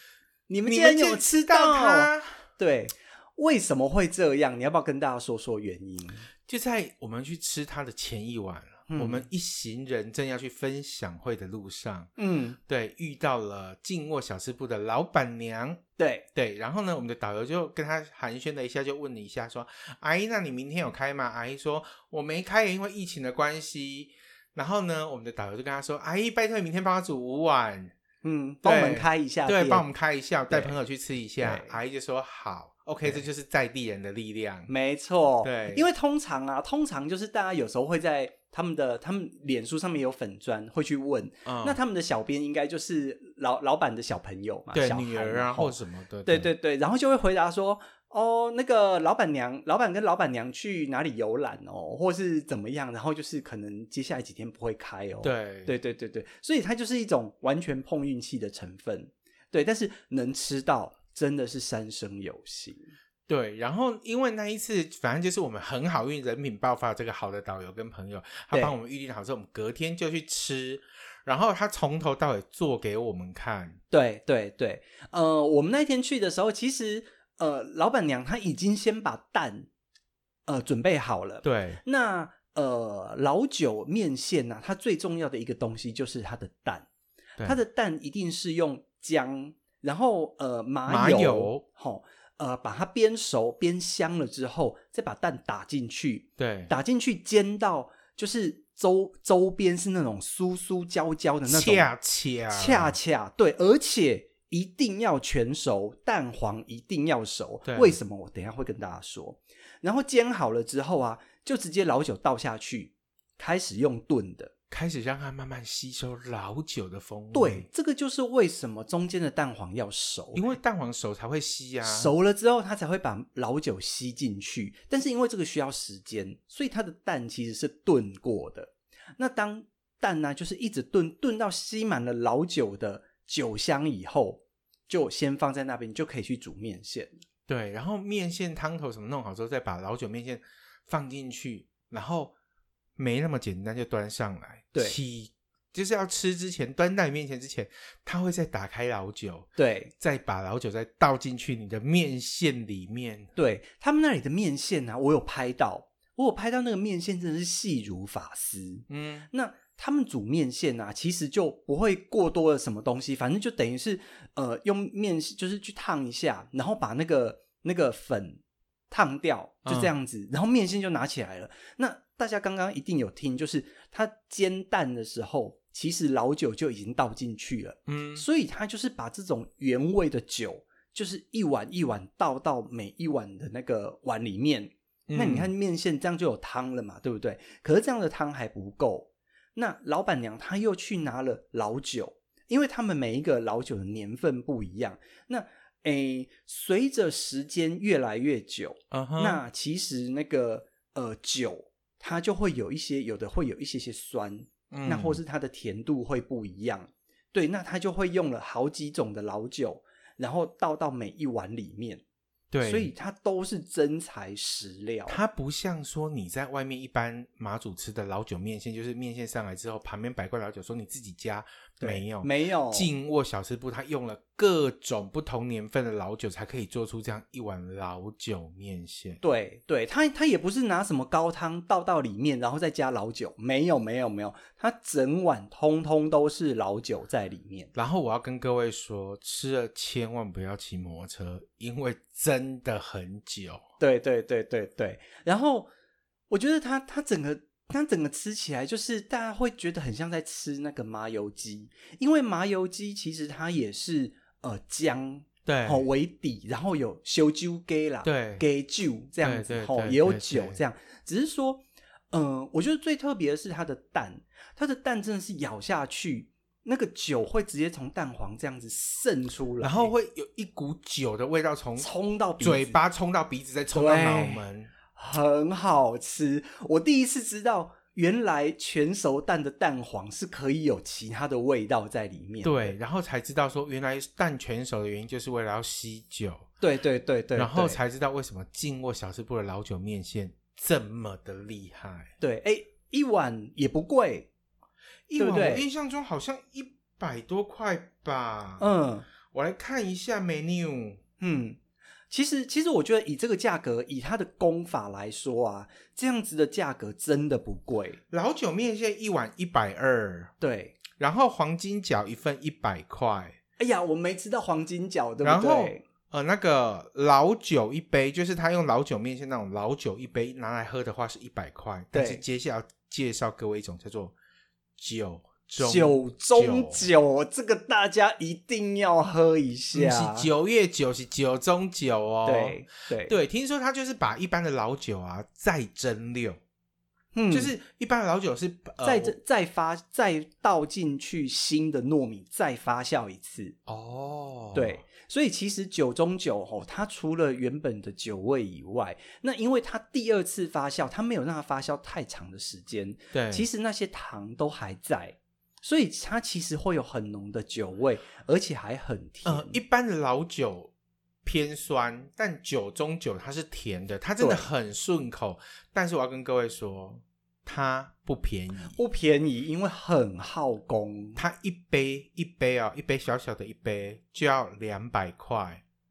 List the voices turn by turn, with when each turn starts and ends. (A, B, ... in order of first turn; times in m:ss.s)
0:00.5-0:06.2 A
0:00.6-0:02.4 B
0:06.5-0:12.1 B
0:08.9-0:09.2 A
0:12.2-0:12.6 A
0:12.7-0:15.8 B
0:16.0-0:16.3 A
0:16.3-0:27.9 B
0:28.2-0:29.8 A
0:28.6-0:34.7 B
0:31.4-0:31.8 A
0:34.7-1:02.9 A
0:35.4-0:35.8 B
0:41.4-0:41.8 B
0:44.7-0:46.5 B
0:55.2-0:55.7 B
1:03.3-1:13.8 B
1:13.9-1:19.7 A
1:20.4-1:26.9 A
1:21.4-1:21.8 B
1:27.4-1:41.9 A
1:30.9-1:31.6 B
1:36.4-1:36.7 B
1:41.5-1:42.9 B
1:42.5-1:54.5 A
1:47.6-1:48.0 B
1:54.7-1:57.7 B
1:57.3-2:00.5 A
2:00.3-2:02.1 B
2:01.8-2:17.2 A
2:17.5-2:22.3 B
2:23.0-2:33.3 B
2:29.6-2:29.9 A
2:33.4-3:32.0 A
2:38.9-2:39.3 B
2:49.6-2:49.9 B
2:57.9-2:58.2 B
3:05.1-3:05.5 B
3:18.9-3:19.4 B
3:24.7-3:25.2 B
3:32.5-3:32.9 B
3:32.6-3:35.2 A
3:35.1-3:49.2 B
3:41.8-3:42.9 A
3:49.2-3:57.7 A
3:57.7-4:03.6 B
4:03.8-4:05.7 A
4:06.3-4:29.9 A
4:15.4-4:15.8 B
4:18.0-4:18.4 B
4:19.2-4:20.6 B
4:29.6-4:31.9 B
4:31.8-4:32.8 A
4:32.4-4:34.7 B
4:33.7-4:34.4 A
4:34.9-4:42.8 A
4:42.4-4:46.5 B
4:46.6-4:47.8 A
4:47.3-4:52.1 B
4:52.2-4:54.3 A
4:55.1-4:58.6 B
4:55.2-4:55.6 A
4:58.6-4:59.1 A
4:59.3-5:01.0 B
5:01.2-5:01.6 A
5:02.1-5:08.0 A
5:08.1-5:10.3 B
5:10.4-5:10.8 A
5:10.9-5:13.4 B
5:13.6-5:15.8 A
5:15.2-5:24.1 B
5:21.9-5:22.2 A
5:24.8-5:26.9 B
5:25.6-5:30.3 A
5:29.7-5:36.4 B
5:32.2-5:33.1 A
5:37.1-5:37.5 A
5:37.3-5:39.2 B
5:38.8-5:43.6 A
5:43.7-5:44.8 B
5:44.5-5:59.6 A
5:53.1-5:53.4 B
5:59.2-6:00.7 B
6:01.2-6:08.8 B
6:04.2-6:04.5 A
6:08.7-6:11.2 A
6:11.2-6:15.6 B